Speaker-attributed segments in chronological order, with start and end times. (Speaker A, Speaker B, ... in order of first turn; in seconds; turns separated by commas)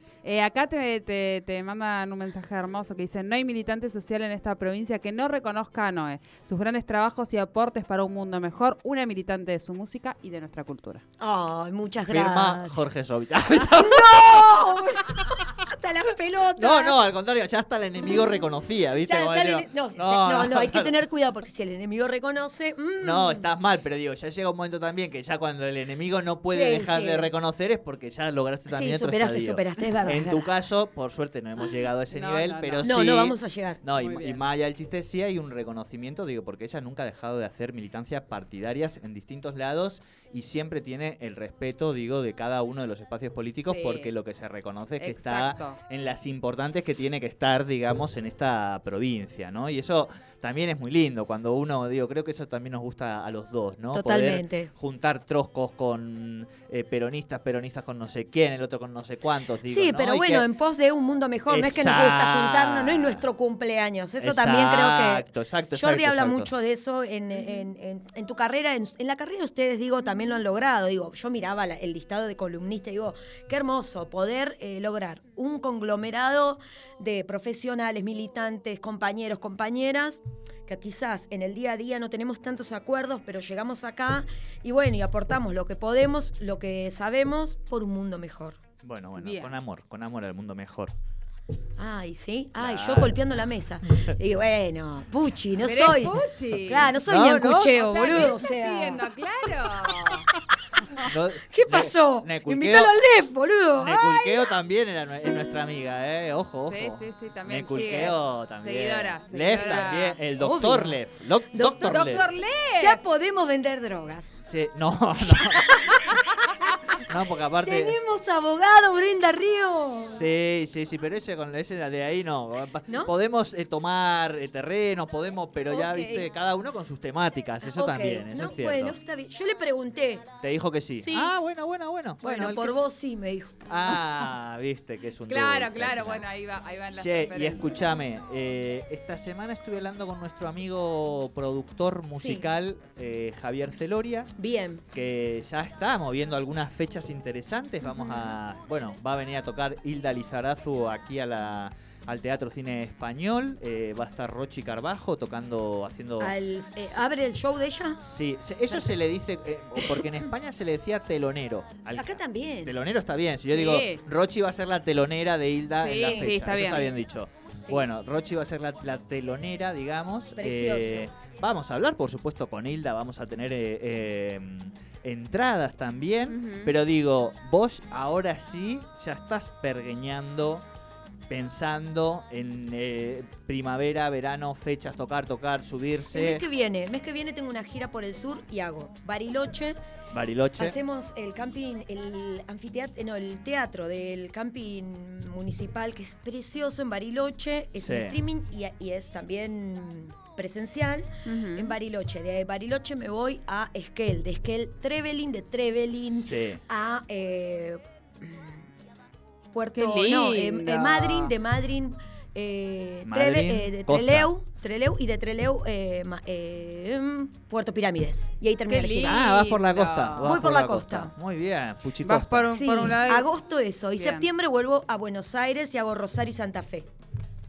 Speaker A: 0.2-11.0, Speaker B: 11.2-12.8, Speaker C: 12.0-14.7, Speaker B: 13.6-17.0, Speaker C: 16.5-20.9, Speaker B: 19.0-23.4, Speaker C: 23.0-60.5, Speaker B: 26.5-27.3, Speaker B: 28.7-30.5, Speaker A: 32.1-32.9, Speaker B: 32.8-33.8, Speaker A: 33.9-34.4, Speaker A: 43.7-44.1, Speaker A: 45.0-45.8, Speaker B: 53.9-54.7, Speaker B: 59.6-88.6, Speaker C: 61.5-63.2, Speaker C: 64.2-66.5, Speaker C: 88.8-90.9, Speaker A: 89.2-89.5, Speaker B: 91.8-99.0, Speaker C: 92.6-93.2, Speaker A: 95.6-97.0, Speaker C: 97.0-98.0, Speaker A: 97.7-100.3, Speaker B: 101.0-104.5, Speaker C: 101.0-102.9, Speaker C: 103.8-112.2, Speaker A: 106.7-110.2, Speaker B: 110.3-111.0, Speaker B: 111.5-114.3, Speaker A: 111.8-113.0, Speaker C: 114.5-115.7, Speaker B: 115.2-117.0, Speaker C: 116.9-118.0, Speaker B: 117.6-120.2, Speaker C: 120.0-129.0, Speaker B: 122.9-123.1, Speaker B: 125.7-126.3, Speaker B: 127.6-130.3, Speaker C: 130.4-132.8, Speaker B: 131.0-131.3, Speaker B: 132.2-133.7, Speaker C: 133.7-136.2, Speaker A: 135.3-137.7, Speaker C: 136.9-144.3, Speaker B: 142.1-142.5, Speaker B: 144.3-144.8, Speaker C: 144.9-156.3, Speaker B: 156.2-158.0, Speaker C: 158.0-180.6, Speaker B: 161.9-162.7, Speaker A: 163.5-164.0, Speaker A: 165.8-166.9, Speaker B: 170.4-171.1, Speaker A: 176.3-176.7, Speaker C: 181.3-186.4, Speaker B: 186.1-189.8, Speaker C: 190.1-190.8, Speaker B: 190.6-208.6, Speaker C: 197.8-198.2, Speaker A: 201.2-201.7, Speaker C: 206.1-206.6, Speaker B: 209.5-219.2, Speaker A: 209.8-211.3, Speaker C: 213.0-214.3, Speaker A: 218.7-220.3, Speaker C: 219.0-222.6, Speaker B: 220.2-221.1, Speaker A: 222.0-223.3, Speaker B: 222.5-226.9, Speaker A: 224.0-224.3